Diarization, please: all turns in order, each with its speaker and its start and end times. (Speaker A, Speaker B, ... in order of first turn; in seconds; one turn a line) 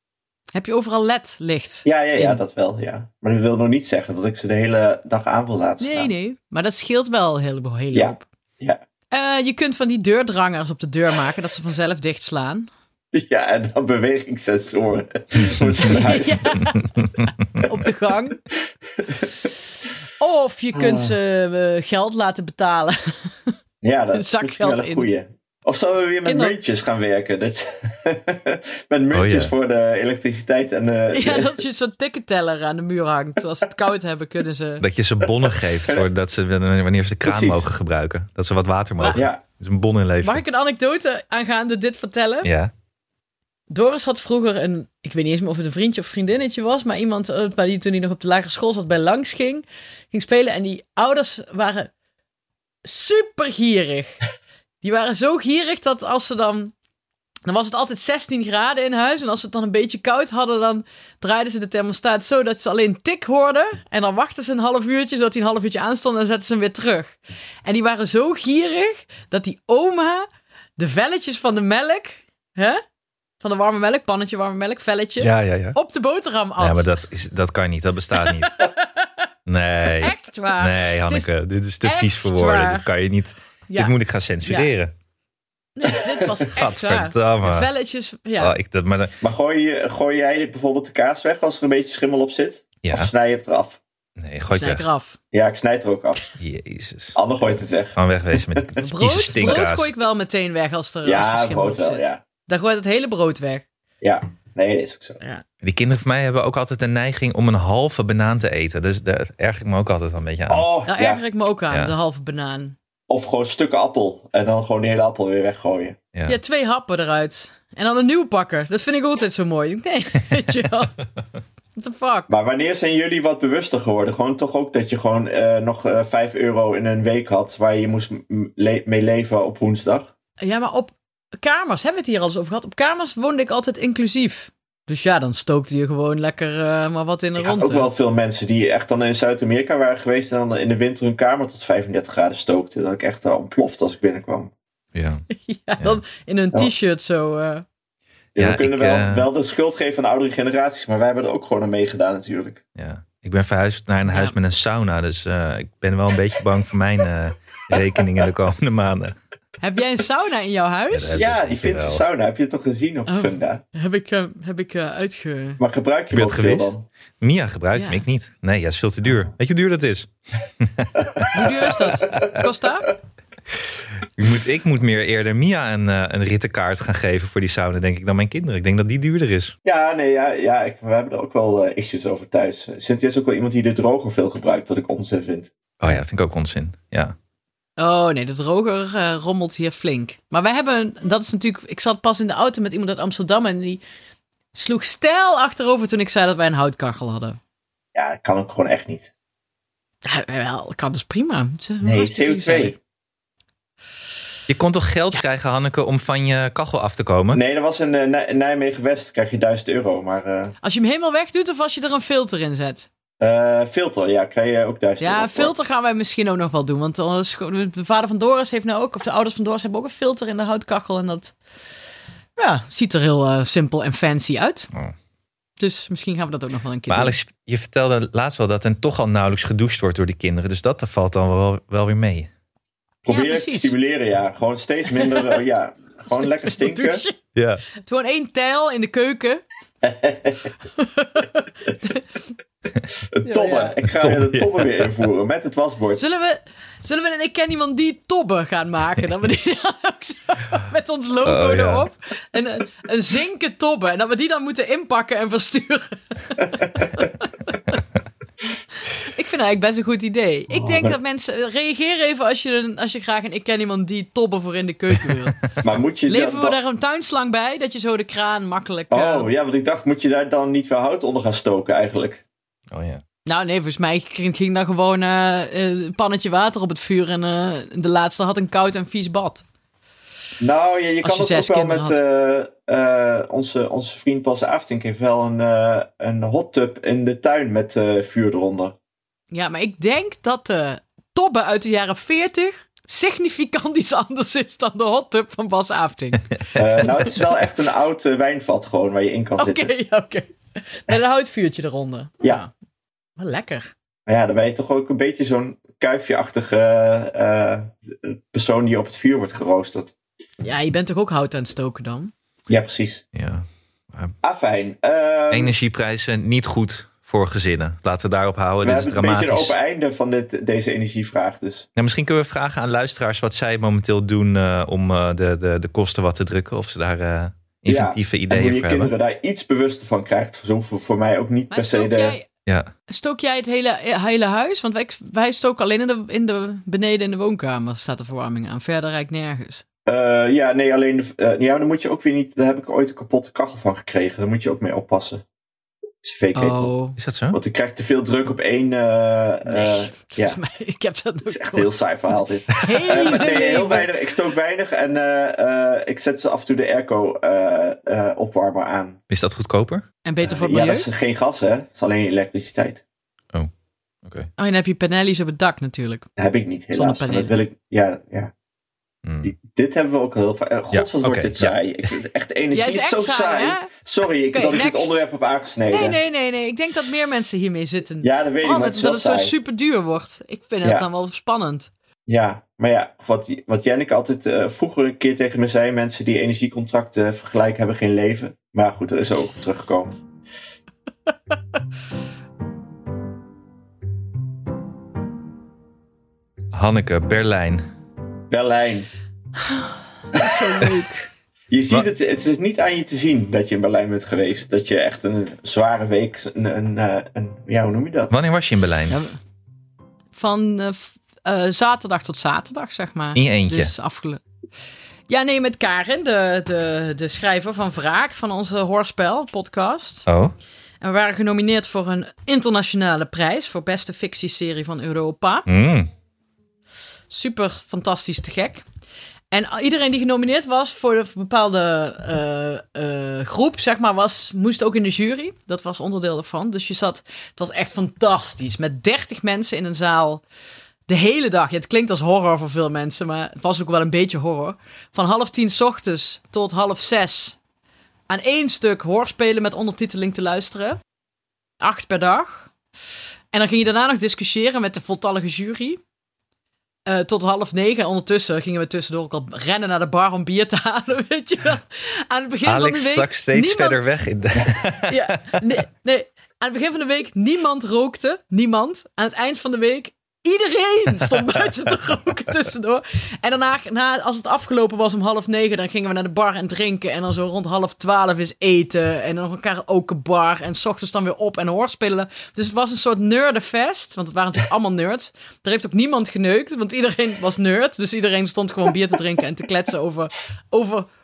Speaker A: 0.5-2.4
Speaker B: 1.8-6.1
Speaker A: 5.8-8.2
Speaker B: 7.9-8.8
Speaker A: 9.1-12.7
Speaker B: 13.1-16.6
Speaker C: 15.4-16.0
Speaker A: 15.8-17.1
Speaker C: 17.0-17.3
Speaker A: 17.6-18.4
Speaker B: 19.0-19.3
Speaker A: 20.2-23.5
Speaker B: 20.7-21.1
Speaker B: 23.8-31.6
Speaker A: 24.1-25.1
Speaker A: 26.2-26.6
Speaker C: 29.1-29.5
Speaker A: 31.1-34.8
Speaker C: 34.8-40.4
Speaker B: 37.2-37.7
Speaker B: 39.1-39.4
Speaker A: 40.2-42.5
Speaker C: 42.4-42.7
Speaker A: 43.7-51.9
Speaker A: 52.8-54.2
Speaker A: 54.8-56.7
Speaker A: 57.5-72.8
Speaker A: 73.4-77.0
Speaker C: 75.2-75.8
Speaker C: 76.6-78.6
Speaker A: 78.1-79.3
Speaker C: 79.5-84.9
Speaker A: 79.8-82.9
Speaker A: 83.7-84.7
Speaker A: 85.8-88.5
Speaker C: 86.5-87.7
Speaker C: 88.4-89.2
Speaker B: 89.2-93.8
Speaker C: 92.8-93.1
Speaker C: 94.2-94.8
Speaker A: 94.5-95.2
Speaker B: 95.3-96.2
Speaker C: 96.4-97.2
Speaker B: 97.1-98.0
Speaker C: 98.0-99.9
Speaker A: 98.8-103.7
Speaker B: 101.0-102.2
Speaker B: 104.0-105.2
Speaker C: 105.6-110.7
Speaker B: 110.5-111.2
Speaker A: 110.8-112.8
Speaker B: 113.1-116.0
Speaker A: 116.3-120.9
Speaker A: 121.8-122.3
Speaker B: 122.3-130.1
Speaker A: 130.4-137.9
Speaker B: 137.4-144.5
Speaker C: 144.9-145.2
Speaker A: 145.3-147.6
Speaker B: 148.3-152.6
Speaker C: 148.4-149.3
Speaker C: 152.8-159.2
Speaker A: 154.1-154.3
Speaker A: 159.6-161.2
Speaker C: 160.9-162.0
Speaker B: 161.1-163.6
Speaker A: 163.1-165.6
Speaker B: 165.6-166.9
Speaker C: 166.1-171.3
Speaker A: 167.7-168.1
Speaker B: 171.2-172.3
Speaker A: 171.3-172.9
Speaker C: 174.2-179.5
Speaker B: 179.6-185.5
Speaker C: 185.8-187.1
Speaker A: 187.8-193.8
Speaker A: 194.5-197.4
Speaker B: 197.9-199.1
Speaker A: 200.0-202.7
Speaker B: 201.8-202.8
Speaker C: 204.5-207.4
Speaker B: 207.3-210.5
Speaker A: 210.6-212.9
Speaker B: 213.2-215.5
Speaker A: 215.0-221.3
Speaker A: 222.4-224.7
Speaker A: 225.6-227.2
Speaker C: 226.9-232.3
Speaker B: 233.0-237.0
Speaker A: 233.1-233.7
Speaker A: 234.9-235.4
Speaker A: 236.1-237.2
Speaker C: 237.3-237.6
Speaker A: 237.7-239.4
Speaker B: 239.8-240.5
Speaker A: 240.7-242.2
Speaker B: 243.1-246.0
Speaker A: 243.2-243.7
Speaker C: 244.0-245.0
Speaker A: 245.9-257.7
Speaker C: 251.2-251.9
Speaker A: 259.0-265.4
Speaker B: 260.5-260.9
Speaker B: 265.6-266.6
Speaker A: 266.1-269.3
Speaker B: 268.9-272.2
Speaker C: 272.7-273.0
Speaker A: 273.2-279.4
Speaker B: 280.4-288.8
Speaker A: 281.0-282.0
Speaker A: 289.3-296.4
Speaker B: 296.5-299.7
Speaker A: 299.4-302.5
Speaker A: 303.2-303.7
Speaker B: 304.1-309.9
Speaker A: 310.4-312.1
Speaker B: 312.5-313.0
Speaker C: 313.1-314.1
Speaker B: 314.2-315.5
Speaker C: 315.3-319.5
Speaker B: 318.6-321.7
Speaker C: 321.8-328.9
Speaker B: 327.6-332.2
Speaker A: 331.5-332.3
Speaker A: 332.9-339.6
Speaker B: 339.9-345.2
Speaker B: 346.0-346.7
Speaker A: 346.3-347.0
Speaker C: 347.0-347.4
Speaker B: 347.3-350.4
Speaker A: 349.4-351.7
Speaker B: 351.2-359.0
Speaker A: 352.5-353.9
Speaker C: 352.7-353.2
Speaker C: 359.1-359.8
Speaker A: 360.0-360.9
Speaker B: 360.2-362.8
Speaker C: 364.0-364.3
Speaker A: 364.4-366.1
Speaker B: 366.2-368.3
Speaker A: 366.7-367.3
Speaker C: 369.0-369.3
Speaker B: 369.2-376.0
Speaker C: 370.7-371.5
Speaker A: 372.5-373.7
Speaker A: 374.3-375.0
Speaker A: 375.7-381.7
Speaker B: 378.0-379.3
Speaker B: 380.6-380.9
Speaker B: 382.1-389.9
Speaker C: 396.5-397.6
Speaker B: 398.3-398.9
Speaker A: 399.4-401.1
Speaker B: 400.1-400.4
Speaker B: 401.5-408.1
Speaker C: 408.1-409.0
Speaker A: 408.9-409.2
Speaker A: 410.1-414.2
Speaker C: 413.1-413.7
Speaker A: 415.1-420.1
Speaker C: 420.1-420.3
Speaker A: 420.8-425.5
Speaker C: 425.5-425.9
Speaker A: 427.1-428.6
Speaker A: 429.3-440.2
Speaker A: 440.9-447.4
Speaker A: 448.1-450.8
Speaker A: 451.6-452.5
Speaker A: 453.3-455.8
Speaker A: 456.9-463.8
Speaker C: 462.4-465.3
Speaker A: 464.8-490.9